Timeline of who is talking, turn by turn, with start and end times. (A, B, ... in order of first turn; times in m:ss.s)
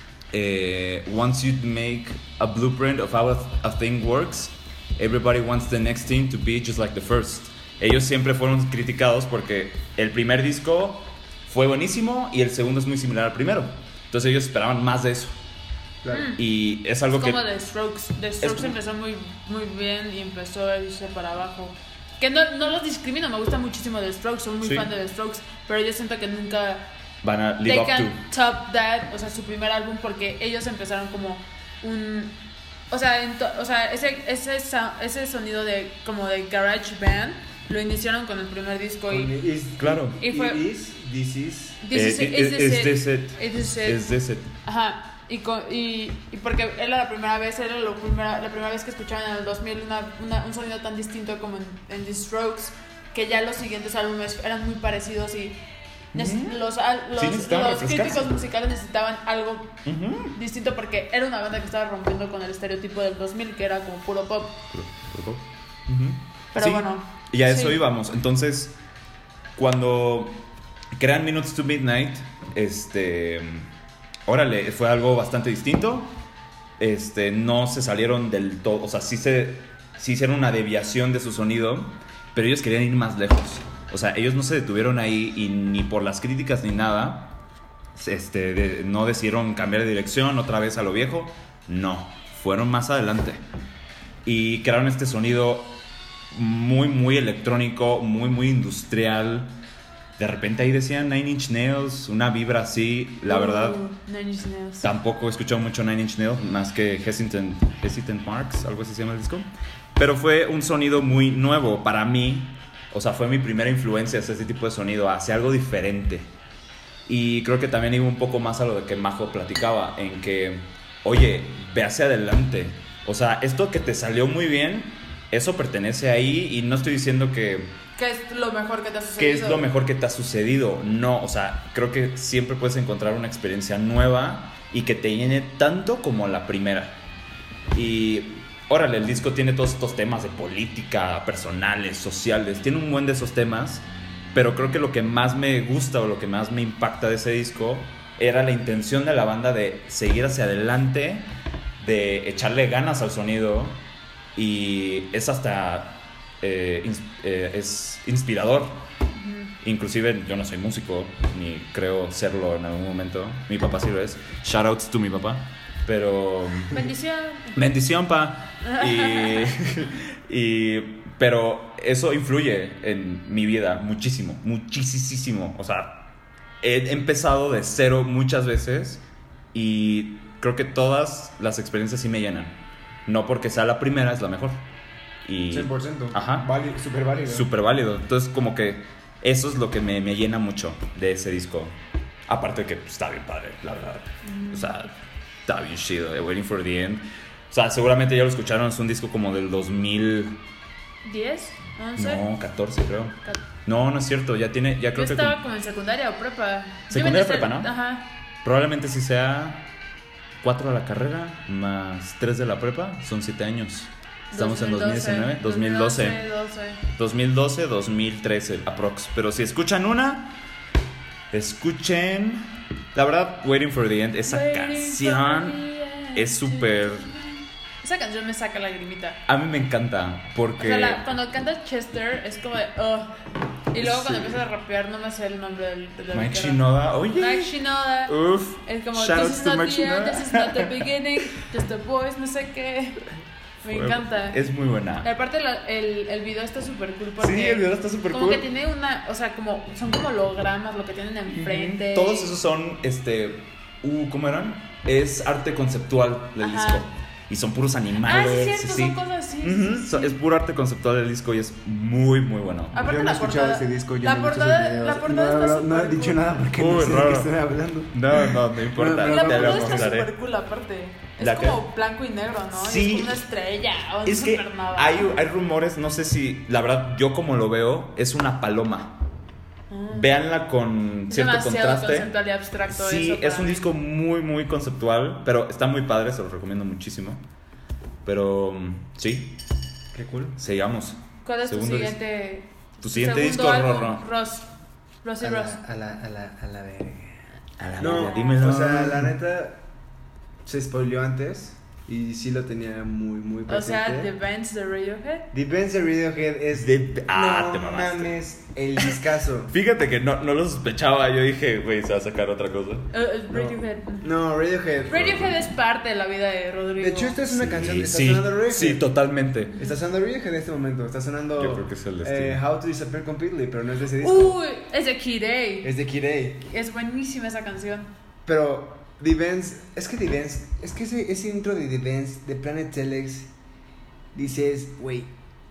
0:00.3-0:15.4 A
0:16.0-0:16.3 B
0:16.1-0:16.4 C
0:16.4-0:17.4 A
0:17.2-0:26.9 C
0:18.4-0:18.8 A
0:24.6-0:24.9 A
0:27.2-0:28.2 A
0:27.6-0:32.4 C
0:32.9-0:39.3 C
0:39.1-0:41.8 B
0:39.8-0:40.2 A
0:40.2-0:40.6 C
0:41.8-0:44.0 C
0:41.9-0:44.5 A
0:44.6-0:55.6 C
0:56.1-0:56.6 A
0:56.1-0:59.8 C
0:57.1-0:58.4 A
0:59.8-1:00.4 A
1:00.3-1:04.6 C
1:04.7-1:08.8 A
1:06.6-1:07.8 C
1:09.6-1:13.7 A
1:14.3-1:16.2 A
1:16.8-1:27.4 A
1:28.0-1:33.4 A
1:34.2-1:35.8 A
1:36.3-1:39.5 A
1:40.2-1:43.8 A
1:43.3-1:44.9 C
1:44.8-1:56.3 A
1:57.1-2:07.8 A
2:08.0-2:09.7 C
2:09.2-2:17.0 A
2:17.7-2:33.8 A
2:34.4-2:38.9 A
2:39.2-2:39.5 C
2:39.6-2:46.9 A
2:46.7-2:47.6 C
2:47.5-2:56.1 A
2:48.6-2:49.5 C
2:56.6-2:59.0 A
2:59.5-3:04.6 A
3:05.2-3:06.5 A
3:05.5-3:07.5 B
3:07.2-3:14.9 A
3:14.2-3:14.9 C
3:15.5-3:20.4 A
3:21.0-3:22.2 C
3:22.0-3:25.4 A
3:25.0-3:28.1 C
3:26.9-3:27.7 A
3:28.4-3:29.7 A
3:30.4-3:36.2 A
3:34.3-3:36.8 C
3:36.9-3:40.4 A
3:41.3-3:45.6 A
3:44.3-3:49.2 C
3:46.1-3:47.1 A
3:49.3-3:51.0 A
3:50.6-3:56.6 C
3:53.8-3:54.4 A
3:56.1-3:57.5 A
3:57.2-4:03.0 C
3:58.1-4:00.7 A
4:03.6-4:04.4 C
4:03.7-4:05.1 A
4:05.0-4:12.4 C
4:07.2-4:08.5 A
4:11.3-4:22.8 A
4:16.4-4:16.8 C
4:18.0-4:20.2 C
4:22.7-4:26.2 C
4:22.8-4:29.9 B
4:26.6-4:27.3 A
4:27.9-4:30.1 A
4:29.0-4:35.2 C
4:31.2-4:31.6 A
4:32.6-4:33.2 A
4:34.0-4:39.0 A
4:39.7-4:40.1 C
4:39.9-4:42.1 A
4:41.1-4:43.6 C
4:42.7-4:47.2 A
4:48.0-4:49.4 A
4:49.9-4:50.4 B
4:50.4-4:52.0 A
4:51.2-4:54.5 C
4:52.8-4:54.0 A
4:55.0-4:55.6 C
4:55.2-4:57.2 B
4:57.6-4:59.2 A
4:57.8-4:59.6 B
4:57.8-4:58.4 C
5:00.4-5:04.1 B
5:03.5-5:05.3 C
5:05.3-5:09.5 B
5:06.6-5:08.2 A
5:09.5-5:12.9 A
5:12.9-5:14.1 C
5:13.3-5:15.3 B
5:14.9-5:17.2 C
5:14.9-5:15.4 A
5:16.8-5:18.9 B
5:17.3-5:19.6 A
5:19.6-5:24.4 B
5:21.4-5:22.4 A
5:24.0-5:25.7 C
5:25.6-5:26.4 B
5:26.4-5:27.9 C
5:28.3-5:33.3 B
5:34.1-5:35.1 B